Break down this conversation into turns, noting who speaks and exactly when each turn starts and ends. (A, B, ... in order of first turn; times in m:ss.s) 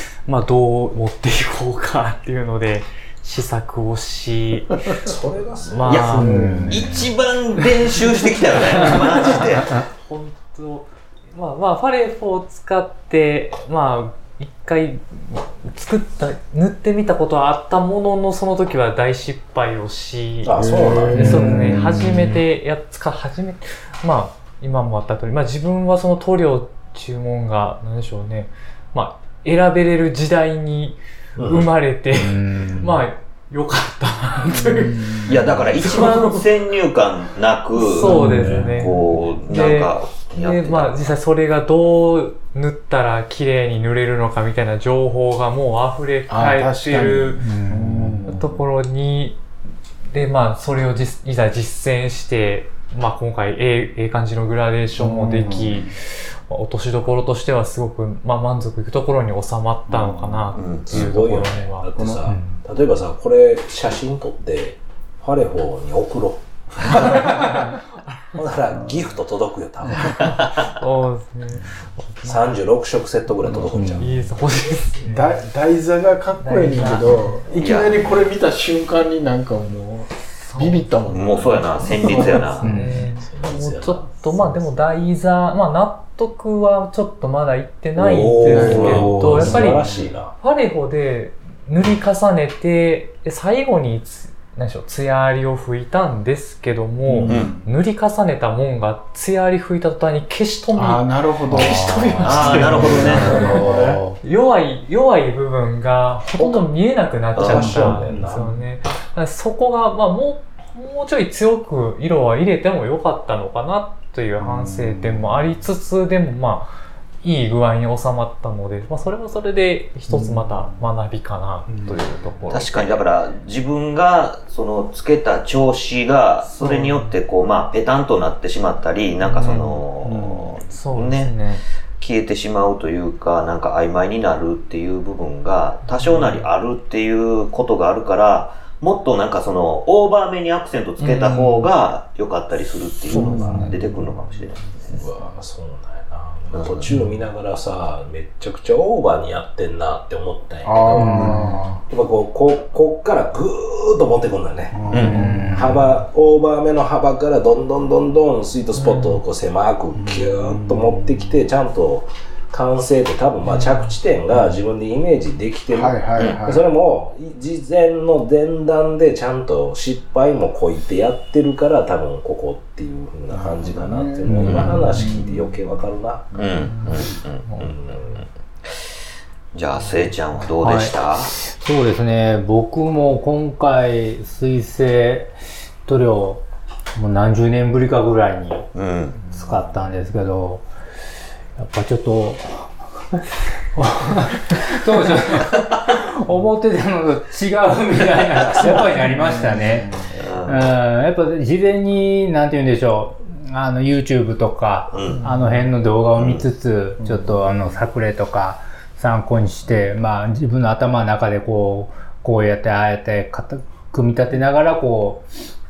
0:00.2-0:05.1 A
0:05.0-0:06.1 B
0:05.6-0:06.8 A
0:05.9-0:09.8 C
0:06.2-0:07.1 D
0:06.4-0:06.8 E
0:08.8-0:36.5 A
0:20.4-0:21.6 B
0:20.5-0:22.0 D
0:21.2-0:22.4 E
0:31.4-0:31.7 B
0:32.2-0:32.9 E
0:34.6-0:35.4 D
0:35.3-0:38.2 C
0:37.8-0:47.6 A
0:38.0-0:38.9 E
0:38.7-0:41.1 C
0:46.3-0:48.5 D
0:47.4-0:48.4 E
0:48.3-0:49.4 A
0:50.1-1:02.2 A
0:55.0-0:55.9 D
0:59.9-1:00.6 D
1:00.6-1:01.1 C
1:00.8-1:07.5 B
1:02.3-1:02.6 E
1:08.3-1:10.5 B
1:10.7-1:12.4 A
1:12.2-1:14.3 B
1:13.7-1:14.1 E
1:14.0-1:15.3 A
1:15.1-1:22.6 D
1:16.4-1:17.5 A
1:17.6-1:18.0 C
1:20.5-1:20.9 A
1:21.1-1:22.7 C
1:22.0-2:03.0 A
1:22.6-1:23.1 E
1:23.2-1:24.8 B
1:28.0-1:30.4 B
1:28.5-1:29.9 D
1:37.1-1:37.7 D
1:37.3-1:37.5 C
1:40.8-1:44.0 D
1:42.2-1:43.6 C
1:42.8-1:44.1 B
1:46.4-1:46.7 B
1:47.3-1:48.5 B
1:47.4-1:47.7 C
1:47.7-1:48.0 D
1:54.4-1:55.3 D
2:01.7-2:02.2 D
2:02.5-2:11.4 C
2:06.6-2:07.1 A
2:09.2-2:09.8 A
2:10.0-2:10.7 D
2:10.7-2:11.6 A
2:12.0-2:25.0 C
2:16.0-2:16.4 A
2:21.0-2:21.7 A
2:23.1-2:23.7 D
2:23.2-2:23.8 E
2:23.2-2:23.8 A
2:24.9-2:56.4 B
2:26.5-2:26.9 C
2:30.6-2:31.8 D
2:31.0-2:31.6 E
2:34.7-2:35.8 D
2:34.9-2:35.3 C
2:35.0-2:35.8 E
2:40.0-2:40.9 D
2:45.7-2:46.7 D
2:53.3-2:55.6 D
2:54.3-2:55.1 E
2:56.4-2:57.7 C
2:57.6-2:58.1 B
2:59.5-3:01.3 C
3:00.6-3:05.3 E
3:05.9-3:06.4 E
3:07.0-3:08.7 E
3:08.7-3:09.2 C
3:09.3-3:10.7 E
3:11.6-3:12.7 E
3:13.8-3:35.3 E
3:18.4-3:19.4 B
3:19.2-3:20.0 D
3:20.2-3:20.7 C
3:24.9-3:25.2 C
3:25.1-3:25.5 D
3:26.2-3:26.4 C
3:27.0-3:27.4 D